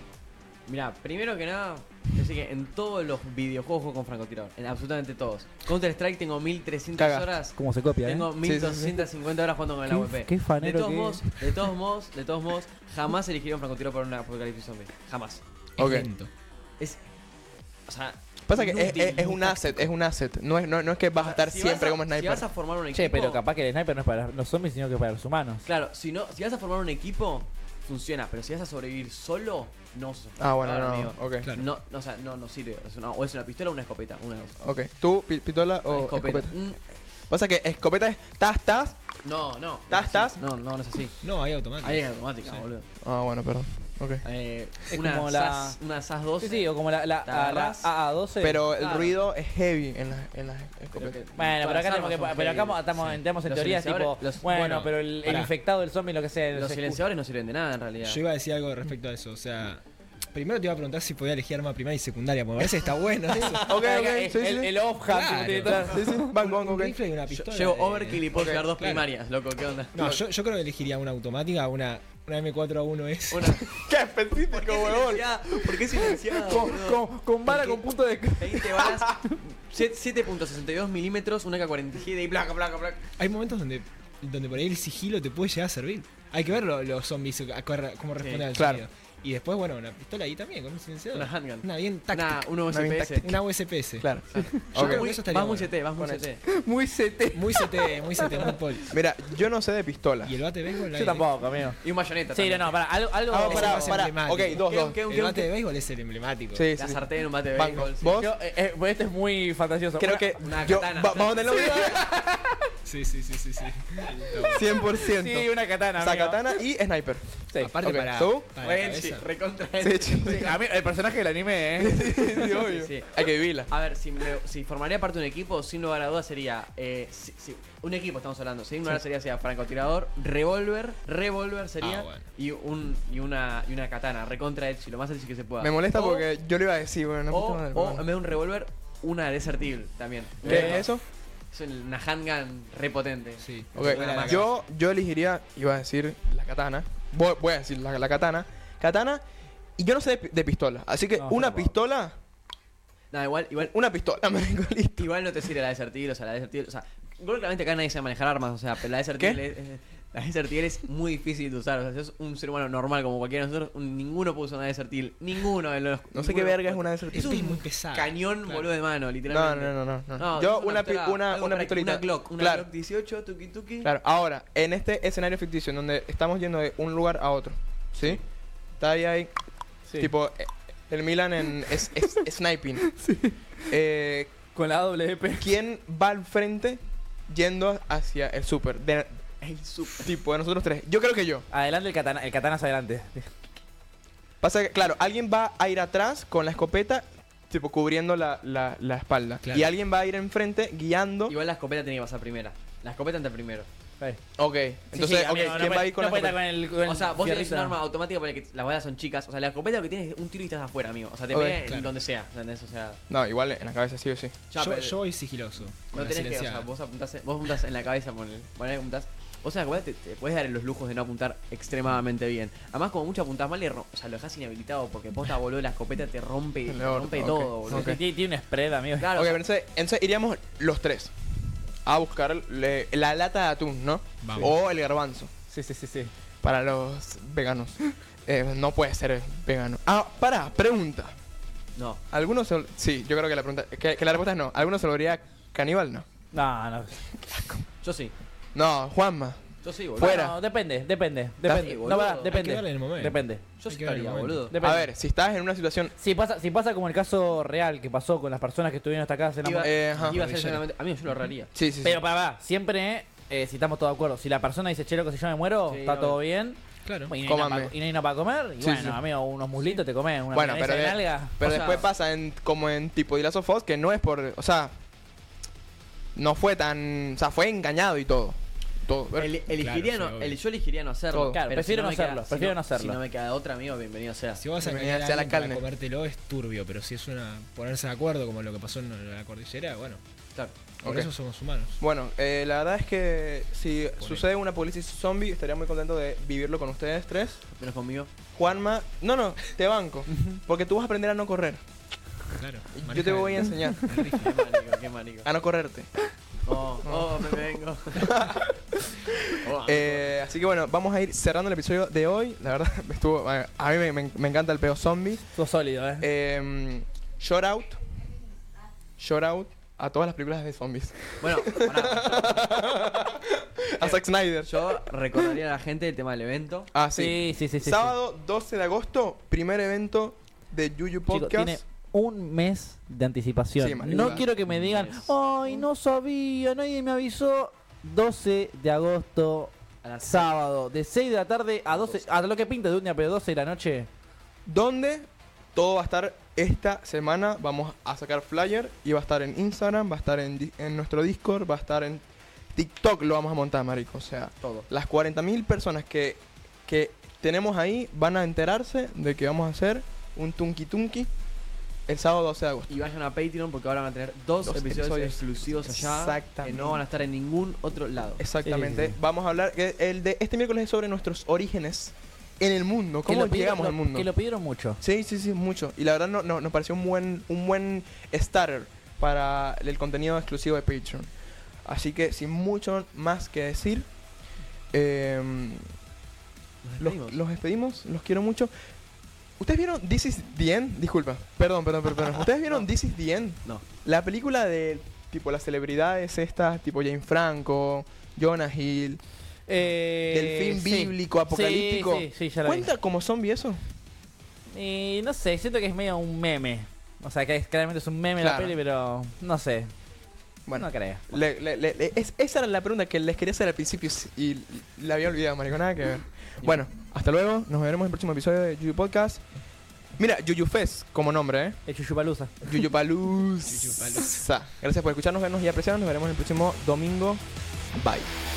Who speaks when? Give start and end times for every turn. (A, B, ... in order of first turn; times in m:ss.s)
0:00.7-0:15.4 A
0:07.0-0:07.3 B
0:07.6-0:08.3 C
0:08.4-0:09.0 B
0:09.9-0:11.2 C
0:15.8-0:16.3 D
0:15.8-0:16.1 B
0:17.9-0:19.8 A
0:18.5-0:22.4 B
0:21.2-0:23.4 A
0:22.9-0:25.7 C
0:25.6-0:34.6 A
0:30.4-0:31.5 B
0:34.6-0:36.5 B
0:35.9-0:36.8 A
0:37.3-0:39.0 B
0:39.2-0:41.2 A
0:39.9-0:40.4 B
0:41.2-0:42.6 D
0:41.8-0:42.9 A
0:43.0-0:44.2 B
0:44.2-0:47.9 A
0:44.9-0:45.8 C
0:46.4-0:48.6 C
0:48.4-0:51.2 B
0:48.8-0:49.2 A
0:51.0-0:52.8 A
0:51.4-0:57.0 C
0:53.4-0:54.5 A
0:54.4-0:55.5 D
0:56.5-0:58.2 A
0:58.0-1:03.7 D
1:03.4-1:03.8 A
1:03.6-1:04.8 B
1:03.7-1:06.2 C
1:05.0-1:09.1 D
1:05.9-1:07.0 B
1:07.3-1:10.2 A
1:08.3-1:08.7 B
1:09.9-1:13.7 D
1:13.3-1:13.8 A
1:13.7-1:15.4 B
1:14.5-1:23.1 A
1:16.0-1:19.4 C
1:18.8-1:19.1 B
1:23.2-1:32.5 D
1:28.2-1:28.5 A
1:28.6-1:28.8 B
1:31.1-1:33.3 A
1:32.7-1:33.4 B
1:33.2-1:34.1 D
1:34.0-1:35.1 B
1:34.3-1:36.4 A
1:34.7-1:35.7 D
1:36.0-1:37.7 B
1:36.7-1:37.4 C
1:37.3-1:39.0 D
1:38.9-1:40.4 B
1:40.2-1:41.3 D
1:40.9-1:41.8 C
1:41.8-1:42.7 A
1:42.3-1:44.0 C
1:43.3-1:45.0 B
1:43.4-1:46.7 D
1:44.5-1:45.5 A
1:46.5-1:48.3 B
1:46.8-1:48.2 A
1:48.1-1:50.3 C
1:50.0-1:52.1 B
1:50.4-1:51.9 A
1:51.7-1:52.6 C
1:52.8-1:54.8 D
1:54.5-1:58.5 B
1:54.9-1:56.4 C
1:57.6-1:59.2 D
1:58.6-2:00.6 A
1:59.8-2:00.5 B
2:00.2-2:02.4 C
2:01.8-2:03.7 B
2:02.4-2:16.3 A
2:11.8-2:12.2 D
2:15.6-2:18.0 B
2:17.3-2:21.0 A
2:20.4-2:20.8 C
2:20.4-2:21.0 B
2:21.5-2:24.5 A
2:23.4-2:24.5 D
2:23.8-2:29.2 B
2:29.8-2:32.2 B
2:31.2-2:31.7 C
2:33.1-2:33.8 A
2:33.7-2:35.1 B
2:35.0-2:53.9 A
2:46.1-2:47.5 B
2:47.1-2:48.7 D
2:49.3-2:52.7 B
2:53.8-2:58.2 B
2:58.8-2:59.3 B
3:00.0-3:02.9 B
3:01.8-3:02.2 C
3:02.9-3:03.6 C
3:03.7-3:04.4 B
3:04.6-3:05.5 C
3:05.4-3:09.2 B
3:09.4-3:10.1 A
3:10.0-3:11.4 B
3:11.5-3:13.3 C
3:14.4-3:21.4 B
3:19.4-3:19.7 D
3:21.3-3:23.7 A
3:24.4-3:26.4 B
3:24.9-3:27.8 C
3:25.3-3:25.6 A
3:26.9-3:33.0 A
3:31.3-3:31.6 B
3:31.6-3:31.9 D
3:33.1-3:34.4 B
3:34.5-3:35.0 A
3:34.6-3:36.7 D
3:35.9-3:48.0 A
3:46.7-3:48.0 B
3:47.7-3:49.1 C
3:49.0-3:49.4 A
3:49.1-3:51.1 B
3:51.8-3:55.3 B
3:54.2-3:54.5 D
3:55.5-3:56.1 C
3:56.4-4:01.2 B
4:01.8-4:02.0 A
4:02.1-4:06.1 B
4:06.3-4:07.0 C
4:07.2-4:07.7 B
4:07.8-4:08.1 A
4:08.6-4:10.4 B
4:09.6-4:10.3 A
4:10.0-4:13.4 C
4:11.4-4:12.4 A
4:12.3-4:14.5 D
4:13.6-4:14.6 A
4:14.5-4:14.9 C
4:14.6-4:15.9 B
4:16.0-4:19.8 C
4:19.4-4:21.5 A
4:19.6-4:20.2 B
4:19.9-4:20.6 D
4:21.6-4:22.0 B
4:21.8-4:31.4 C
4:25.7-4:26.2 A
4:26.8-4:27.1 D
4:27.2-4:27.8 B
4:28.6-4:29.0 B
4:30.3-4:34.8 B
4:31.4-4:31.9 A
4:36.2-4:39.3 B
4:39.2-4:44.4 A
4:39.6-4:40.4 D
4:41.1-4:41.4 B
4:41.3-4:43.0 C
4:44.4-4:50.0 D
4:44.6-4:45.6 B
4:50.8-4:51.1 B
4:50.8-4:51.8 D
4:51.8-4:57.4 B
4:54.0-4:54.3 D
4:57.6-4:58.1 A
4:58.3-5:01.6 B
5:02.3-5:04.3 D
5:02.8-5:04.1 B
5:03.9-5:05.3 A
5:05.2-5:05.9 B
5:06.4-5:08.2 A
5:06.8-5:07.3 B
5:08.0-5:15.3 B
5:09.3-5:10.2 A
5:15.4-5:16.1 C
5:16.0-5:17.8 B
5:19.0-5:25.2 B
5:21.2-5:22.5 A
5:23.8-5:26.7 A
5:26.7-5:31.6 B
5:26.9-5:28.0 C
5:31.1-5:43.9 C
5:33.6-5:34.2 B
5:33.9-5:35.6 A
5:39.8-5:40.3 A
5:41.7-5:42.0 A
5:44.5-6:01.1 B
5:54.4-5:54.7 A
6:01.9-6:02.7 B
6:02.7-6:08.2 A
6:04.5-6:06.8 B
6:08.2-6:14.1 B
6:08.4-6:09.0 C
6:13.1-6:14.8 C
6:14.8-6:21.1 B
6:21.6-6:23.9 B
6:24.7-6:25.7 B
6:26.6-6:27.2 A
6:26.8-6:28.5 B
6:29.4-6:39.0 B
6:39.5-6:42.7 C
6:40.1-6:43.6 B
6:44.5-6:49.7 C
6:48.2-6:48.6 B
6:50.5-6:59.2 B
6:50.6-6:51.1 C
7:00.0-7:01.6 B
7:01.7-7:02.4 C
7:02.4-7:07.2 B
7:03.5-7:04.3 D
7:07.7-7:08.1 B